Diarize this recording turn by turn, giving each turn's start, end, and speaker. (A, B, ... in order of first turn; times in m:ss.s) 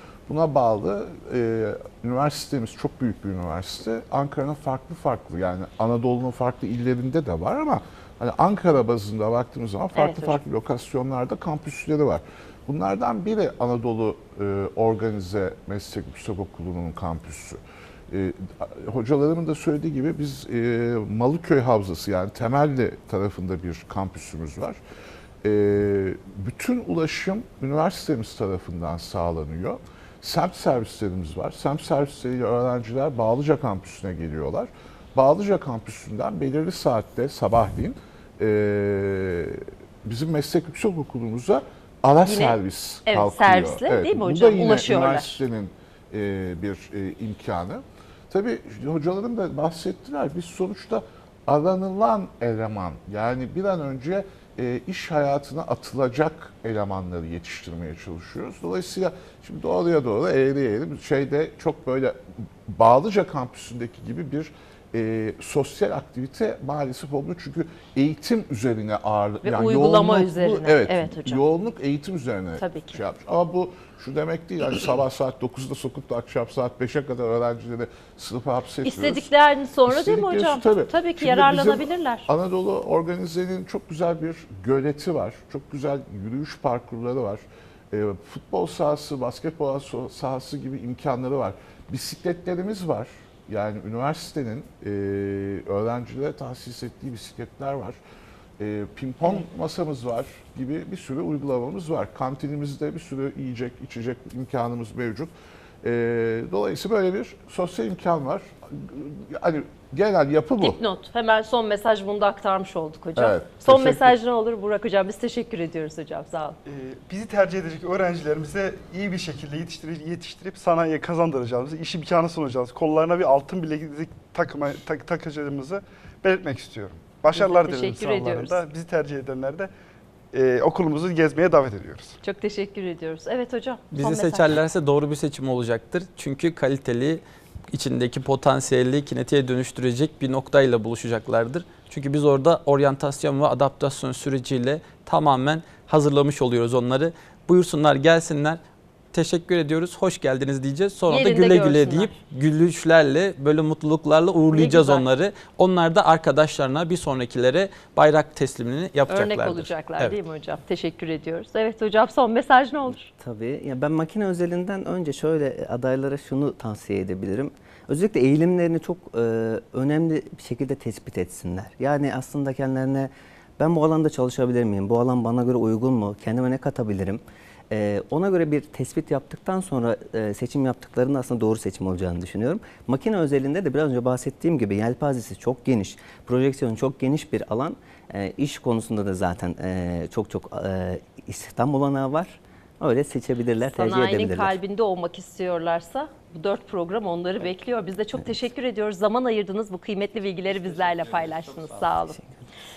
0:00.3-0:24.8 A
0:09.9-0:10.4 B
0:25.4-1:19.3 A
0:42.2-0:45.4 B
1:09.4-1:11.4 B
1:12.6-1:12.9 B
1:18.8-1:22.3 B
1:19.8-1:38.0 A
1:38.6-1:45.3 A
1:45.8-1:50.8 A
1:50.6-1:56.6 B
1:53.2-1:54.1 A
1:56.6-2:09.7 C
2:07.3-2:08.6 B
2:10.3-2:12.2 C
2:12.2-2:14.6 B
2:13.9-2:28.6 D
2:29.1-2:40.2 D
2:31.1-2:32.1 B
2:34.5-2:35.0 B
2:39.1-2:43.1 B
2:43.2-3:14.6 E
3:13.6-3:22.2 B
3:20.5-3:22.4 E